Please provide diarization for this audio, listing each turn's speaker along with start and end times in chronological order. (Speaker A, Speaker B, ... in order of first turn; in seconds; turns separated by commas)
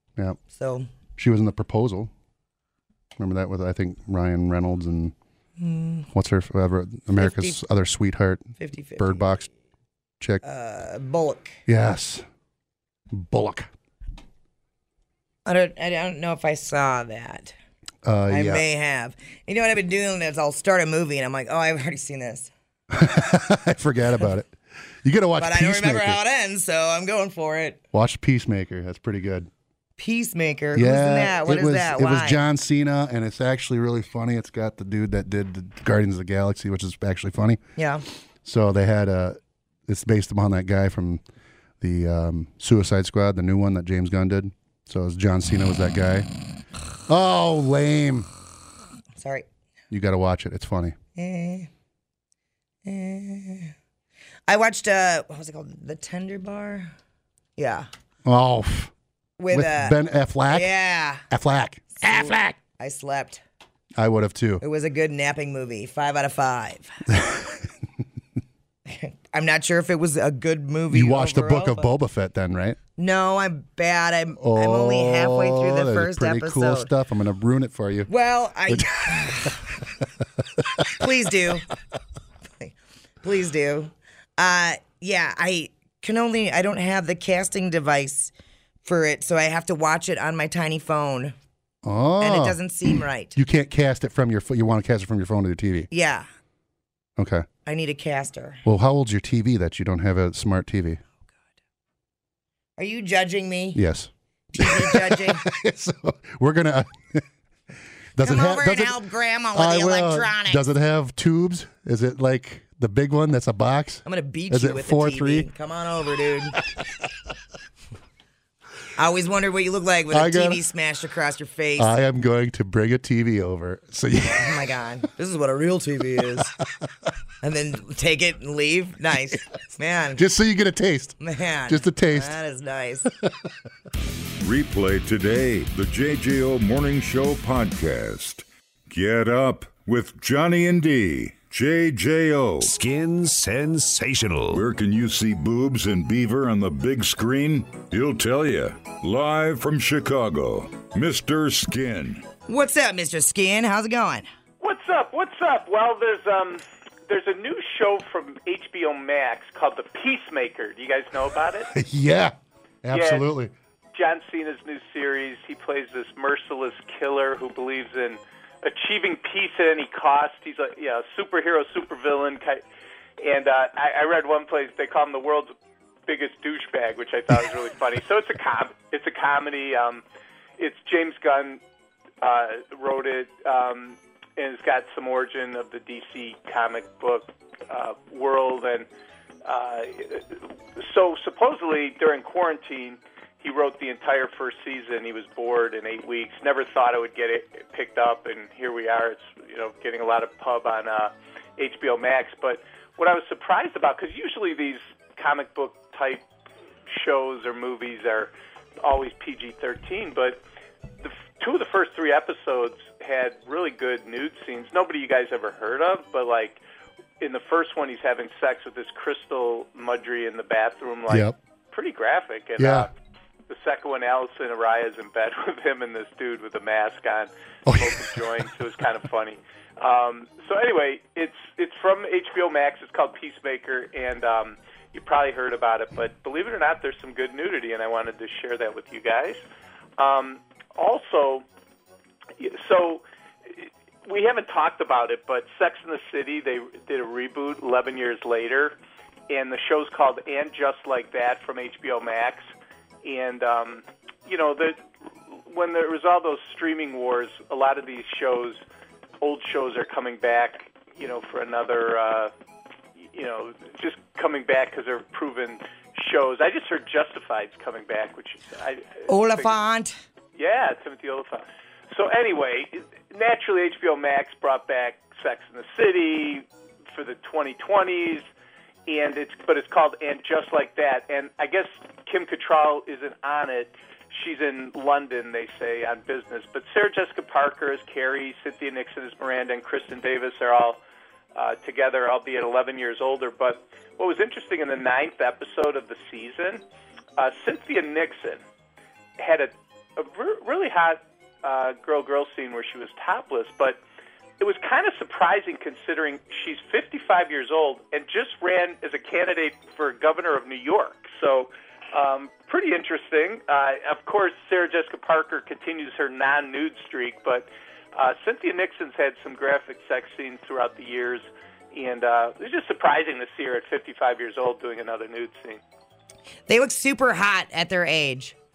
Speaker A: 0.5-0.9, Speaker B: 1.2-2.1, Speaker B: 3.2-5.1, Speaker A: 5.6-6.0, Speaker B: 6.1-9.5, Speaker A: 7.2-7.6, Speaker A: 8.6-9.4, Speaker A: 10.4-11.6, Speaker B: 11.7-12.2, Speaker B: 13.1-13.7, Speaker A: 15.4-17.5, Speaker B: 18.0-18.6, Speaker A: 18.3-22.5, Speaker B: 22.9-26.2, Speaker A: 25.4-27.8, Speaker B: 27.9-29.5, Speaker A: 30.0-32.4, Speaker B: 30.7-37.6, Speaker A: 37.8-38.0, Speaker B: 38.4-41.2, Speaker B: 41.8-46.3, Speaker B: 47.1-48.3, Speaker A: 49.2-49.5, Speaker B: 49.9-51.0, Speaker A: 51.1-51.7, Speaker A: 52.8-53.7, Speaker A: 54.5-56.9, Speaker A: 57.6-57.9, Speaker B: 58.2-58.9, Speaker A: 59.4-60.0, Speaker B: 59.5-60.7, Speaker A: 60.5-61.2, Speaker B: 61.3-62.6, Speaker A: 62.0-63.4, Speaker B: 64.0-64.6, Speaker A: 64.6-66.9, Speaker B: 67.1-67.7, Speaker A: 68.9-71.9, Speaker B: 70.9-72.8, Speaker A: 73.0-76.9, Speaker B: 74.4-78.1, Speaker A: 78.1-79.8, Speaker B: 78.7-79.6, Speaker A: 80.9-81.7, Speaker A: 82.6-88.3, Speaker A: 88.8-91.3, Speaker B: 91.8-95.9, Speaker A: 92.2-93.3, Speaker A: 95.9-96.3, Speaker B: 97.2-97.5, Speaker A: 97.6-98.6, Speaker B: 98.6-101.0, Speaker A: 102.8-103.8, Speaker B: 103.7-107.2, Speaker A: 104.5-105.4, Speaker B: 108.2-109.0, Speaker A: 108.2-110.6, Speaker B: 109.5-115.5, Speaker A: 114.0-116.6, Speaker A: 119.0-121.9, Speaker B: 120.1-120.6, Speaker B: 121.8-124.7, Speaker A: 124.3-126.5, Speaker A: 127.4-130.2, Speaker B: 130.2-132.3, Speaker A: 131.2-133.1, Speaker C: 134.4-142.7, Speaker D: 142.6-144.6, Speaker C: 144.5-152.2, Speaker A: 152.5-154.3, Speaker E: 154.6-161.7, Speaker B: 161.7-163.5, Speaker E: 162.9-163.3, Speaker E: 163.9-172.6, Speaker E: 173.2-175.5, Speaker E: 176.1-180.0, Speaker E: 180.6-181.6, Speaker E: 182.2-188.9, Speaker E: 189.4-206.2, Speaker E: 206.9-208.3, Speaker E: 208.8-210.4, Speaker E: 211.0-216.6, Speaker E: 217.2-222.9, Speaker B: 221.1-221.4, Speaker B: 222.6-222.9, Speaker E: 223.5-239.4, Speaker B: 227.7-228.2, Speaker E: 240.0-241.4, Speaker E: 242.4-248.8, Speaker E: 249.3-252.5, Speaker E: 253.0-254.8, Speaker E: 255.5-258.6, Speaker E: 259.2-262.3, Speaker E: 263.0-269.5, Speaker A: 269.1-269.9, Speaker E: 270.4-278.2, Speaker E: 278.9-290.8, Speaker E: 291.3-296.6, Speaker E: 297.2-298.4, Speaker E: 299.2-303.8, Speaker E: 304.4-325.6, Speaker A: 326.5-328.4